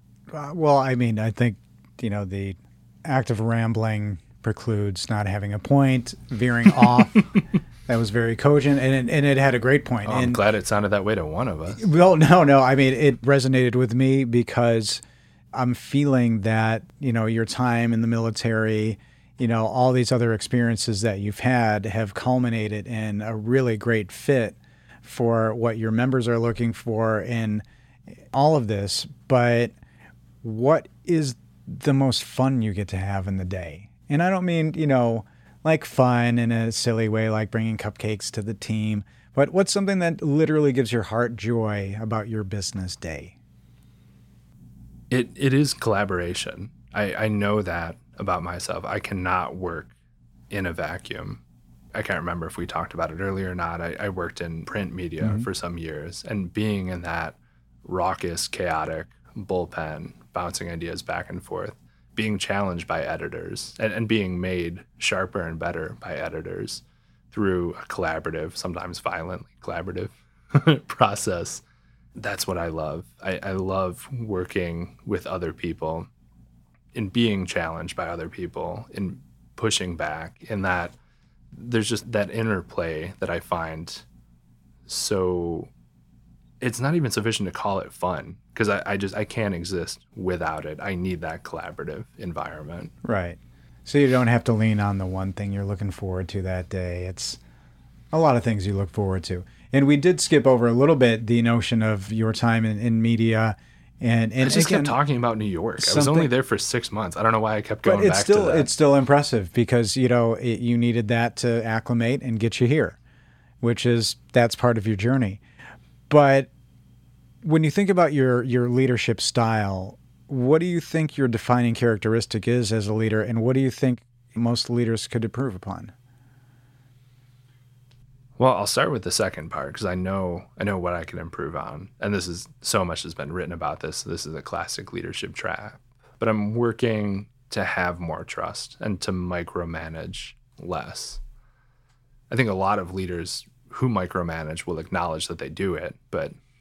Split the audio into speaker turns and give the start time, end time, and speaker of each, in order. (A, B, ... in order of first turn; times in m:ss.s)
0:00.3-0:10.4 A
0:10.0-0:11.8 B
0:11.8-0:15.0 A
0:15.5-0:27.6 A
0:28.3-0:29.7 A
0:30.4-0:43.3 A
0:45.1-0:49.9 B
0:50.5-0:51.4 B
0:51.9-1:11.6 B
0:55.2-0:55.5 A
1:12.2-1:16.1 B
1:16.9-1:21.0 B
1:21.5-1:24.0 B
1:24.9-1:25.7 B
1:26.6-1:32.9 B
1:33.0-1:37.4 A
1:38.1-1:45.0 A
1:44.4-1:48.7 B
1:45.8-1:46.3 A
1:47.8-1:53.0 A
1:53.6-1:55.4 A
1:56.1-1:56.5 A
1:57.4-2:05.9 A
2:08.4-2:21.2 B
2:22.3-2:26.3 B